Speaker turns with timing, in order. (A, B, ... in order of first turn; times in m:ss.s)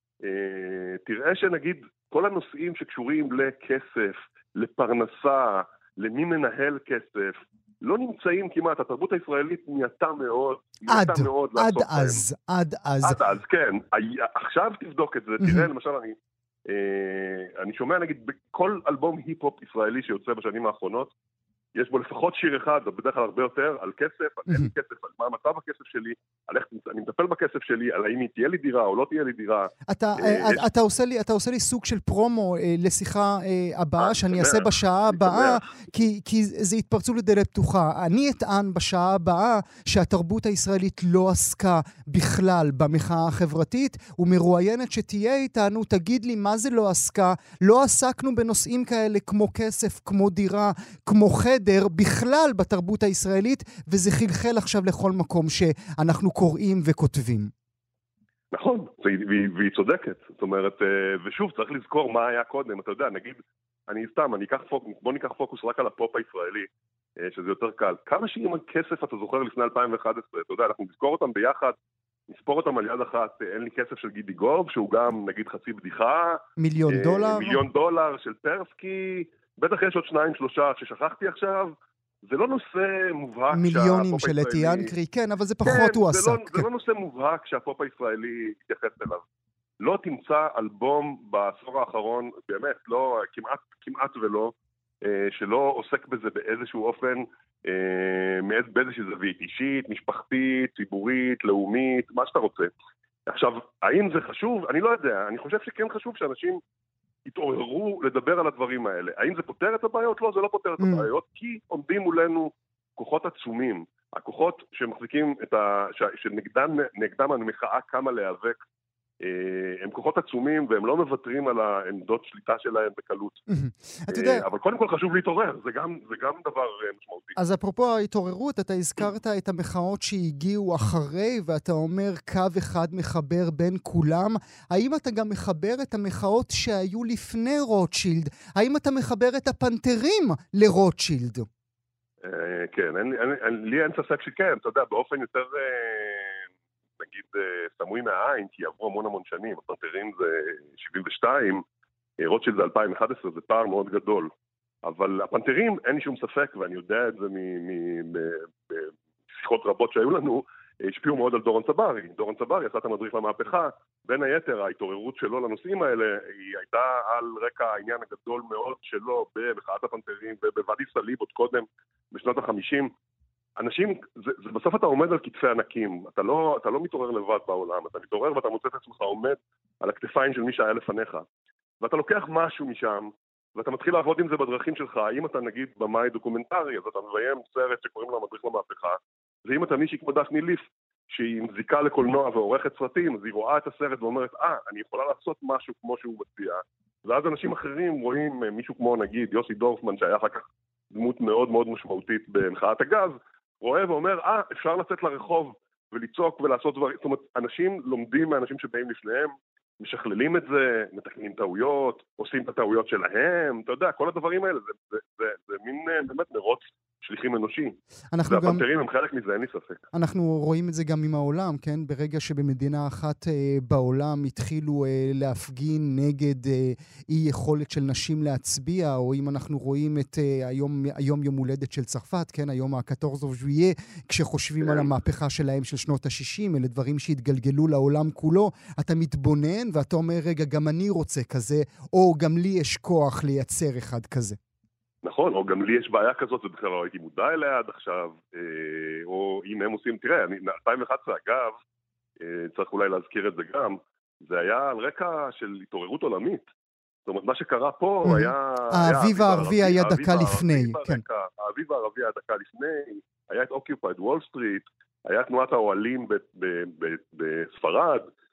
0:00.2-0:12.2 A
0:10.9-0:13.2 B
0:13.0-0:16.2 A
0:15.4-0:15.7 B
0:16.7-0:21.1 A
0:21.7-0:30.6 A
0:29.9-0:57.5 B
0:34.0-0:35.6 A
0:58.5-1:06.7 A
1:07.2-1:11.8 A
1:12.3-1:21.7 A
1:16.6-1:17.6 B
1:22.2-1:24.9 A
1:23.5-1:26.6 B
1:25.6-1:29.2 A
1:29.8-1:42.7 A
1:43.3-1:46.6 A
1:47.2-1:58.6 A
1:50.8-1:51.1 B
1:59.2-2:03.4 A
2:03.5-2:04.4 B
2:04.1-2:07.4 A
2:07.4-2:21.5 B
2:22.2-2:26.5 A
2:27.0-2:31.6 A
2:32.2-2:34.3 A
2:34.8-2:52.9 A
2:53.6-3:01.2 A
3:01.8-3:39.8 A
3:38.1-3:38.6 B
3:39.9-4:04.4 B
3:54.6-3:54.9 A
4:05.0-4:11.6 A
4:12.2-4:16.4 A
4:17.0-4:28.1 A
4:18.0-4:21.0 B